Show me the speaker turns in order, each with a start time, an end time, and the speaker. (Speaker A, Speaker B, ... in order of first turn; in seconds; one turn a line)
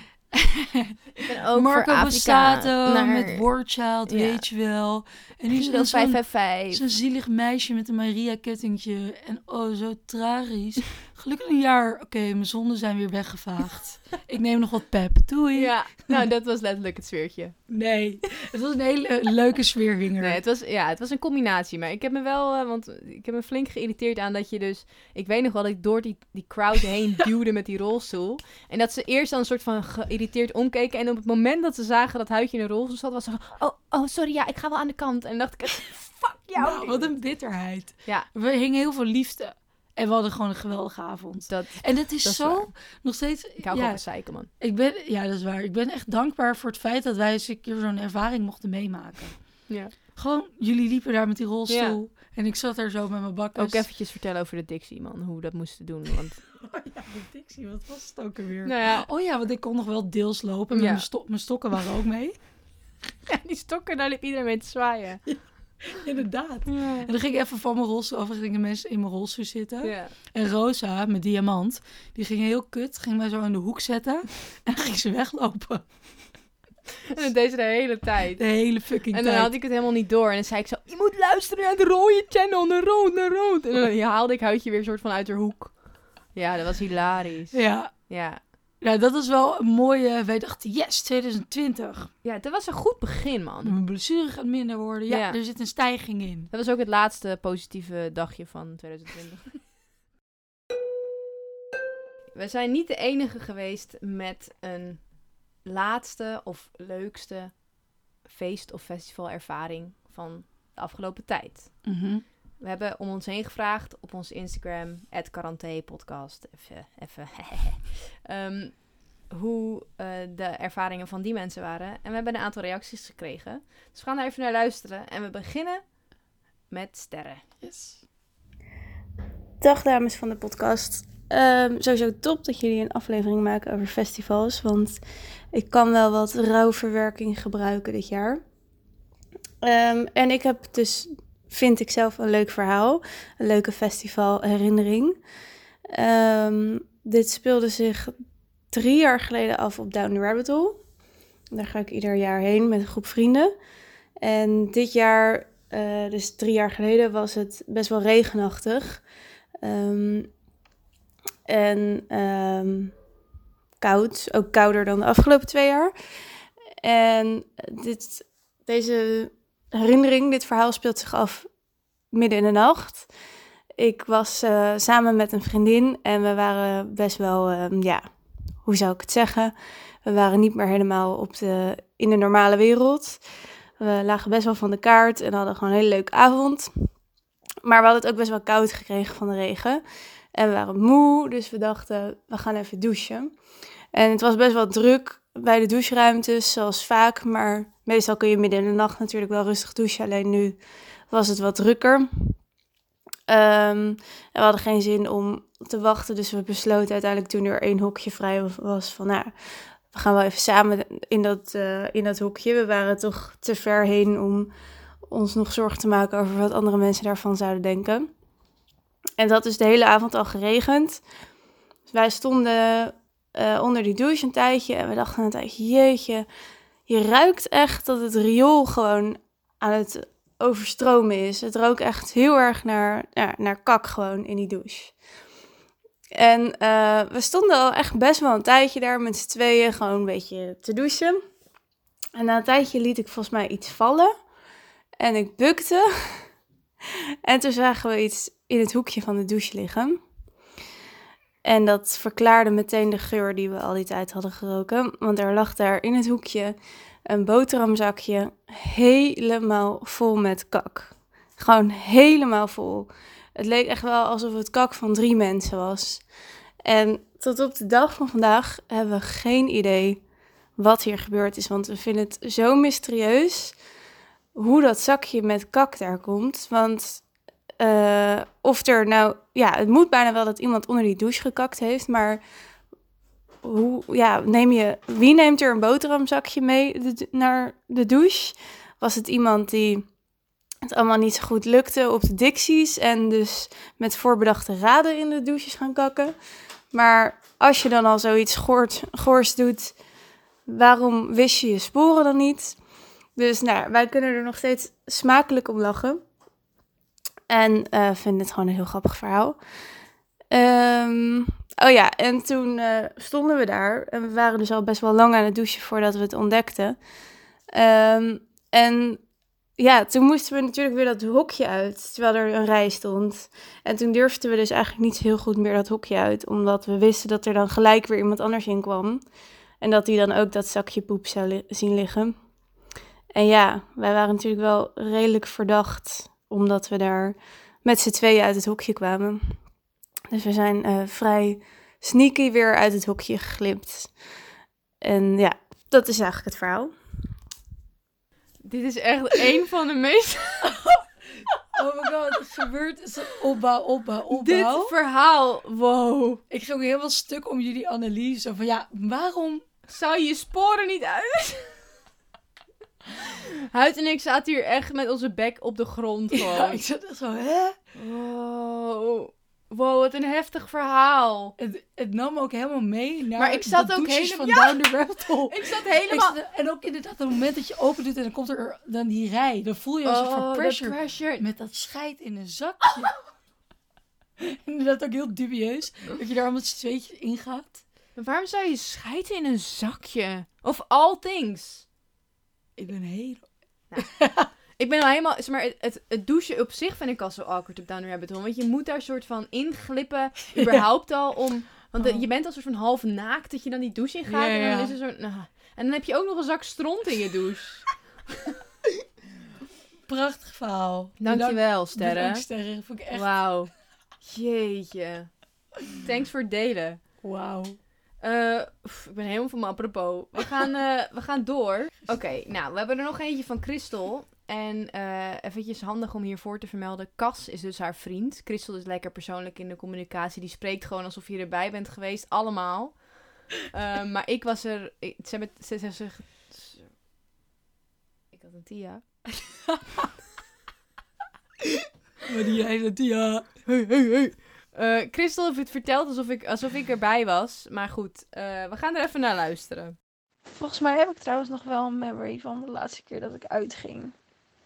Speaker A: 0.3-16.1
Speaker B: 1.3-3.5
Speaker B: 4.1-4.4
Speaker B: 5.5-6.9
Speaker B: 15.6-17.6
Speaker A: 17.7-20.4
Speaker B: 20.2-37.2
Speaker A: 36.6-44.0
Speaker B: 41.5-42.7
Speaker B: 43.6-44.5
Speaker A: 44.6-49.4
Speaker A: 50.1-53.9
Speaker B: 51.7-52.0
Speaker B: 53.6-56.4
Speaker A: 56.5-62.4
Speaker B: 58.6-59.1
Speaker B: 60.7-61.1
Speaker B: 63.3-65.2
Speaker A: 65.8-75.9
Speaker B: 66.7-67.1
Speaker B: 69.8-70.1
Speaker B: 77.1-78.6
Speaker A: 78.4-79.5
Speaker B: 79.1-88.4
Speaker A: 87.5-88.1
Speaker A: 88.8-92.1
Speaker B: 92.2-93.8
Speaker A: 93.6-96.5
Speaker B: 95.1-95.4
Speaker B: 96.5-99.6
Speaker B: 102.3-105.1
Speaker B: 105.7-107.6
Speaker B: 108.2-111.8
Speaker A: 111.8-112.2
Speaker B: 112.6-125.8
Speaker B: 126.7-127.4
Speaker A: 127.6-128.0
Speaker C: 129.6-135.0
Speaker C: 135.5-138.4
Speaker C: 139.6-145.2
Speaker C: 145.9-148.1
Speaker C: 148.7-150.8
Speaker C: 151.5-153.5
Speaker C: 154.2-159.0
Speaker C: 159.6-160.3
Speaker C: 161.5-162.9
Speaker C: 163.8-165.9
Speaker C: 166.8-171.5
Speaker C: 172.1-173.1
Speaker C: 173.8-178.1
Speaker C: 178.6-183.2
Speaker C: 183.8-186.7
Speaker C: 187.6-189.8
Speaker C: 190.3-193.3
Speaker C: 193.9-200.6
Speaker C: 201.1-202.3
Speaker C: 203.3-209.3
Speaker C: 209.9-214.5
Speaker C: 215.1-218.1
Speaker C: 219.2-221.0
Speaker C: 221.9-226.3
Speaker C: 226.9-234.9
Speaker C: 236.2-241.2
Speaker C: 242.2-244.1
Speaker C: 245.0-246.3
Speaker C: 247.2-250.0
Speaker C: 251.4-256.6
Speaker C: 257.1-266.0
Speaker C: 266.6-270.0
Speaker C: 270.6-273.6
Speaker C: 274.4-277.0
Speaker C: 277.6-282.2
Speaker C: 283.4-289.9
Speaker C: 290.6-296.1
Speaker C: 296.7-299.8
Speaker C: 300.5-302.6
Speaker C: 303.2-306.0
Speaker C: 307.3-309.4
Speaker C: 310.3-316.8
Speaker C: 317.5-319.0
Speaker C: 319.6-329.0
Speaker C: 329.6-332.1
Speaker C: 333.1-339.4
Speaker C: 340.1-343.9
Speaker C: 344.8-346.7
Speaker B: 348.4-350.5
Speaker A: 350.4-354.7
Speaker B: 354.1-356.2
Speaker A: 356.3-359.4
Speaker B: 359.7-361.6
Speaker B: 363.0-366.6
Speaker A: 366.1-367.6
Speaker B: 367.8-371.4
Speaker A: 371.4-382.9
Speaker B: 373.2-376.2
Speaker B: 379.9-381.2
Speaker A: 384.2-387.6
Speaker B: 388.0-391.7
Speaker A: 392.6-393.2
Speaker A: 393.8-394.3
Speaker B: 394.6-407.7
Speaker A: 400.3-400.7
Speaker A: 401.8-402.1
Speaker A: 404.1-404.8
Speaker A: 409.9-413.2
Speaker B: 411.0-412.2
Speaker B: 412.9-413.5
Speaker B: 414.0-415.1
Speaker B: 415.8-416.8
Speaker A: 417.0-417.6
Speaker B: 418.0-432.8
Speaker B: 433.4-436.7
Speaker B: 438.1-439.1
Speaker A: 442.0-443.3
Speaker B: 443.5-449.8
Speaker D: 450.4-453.9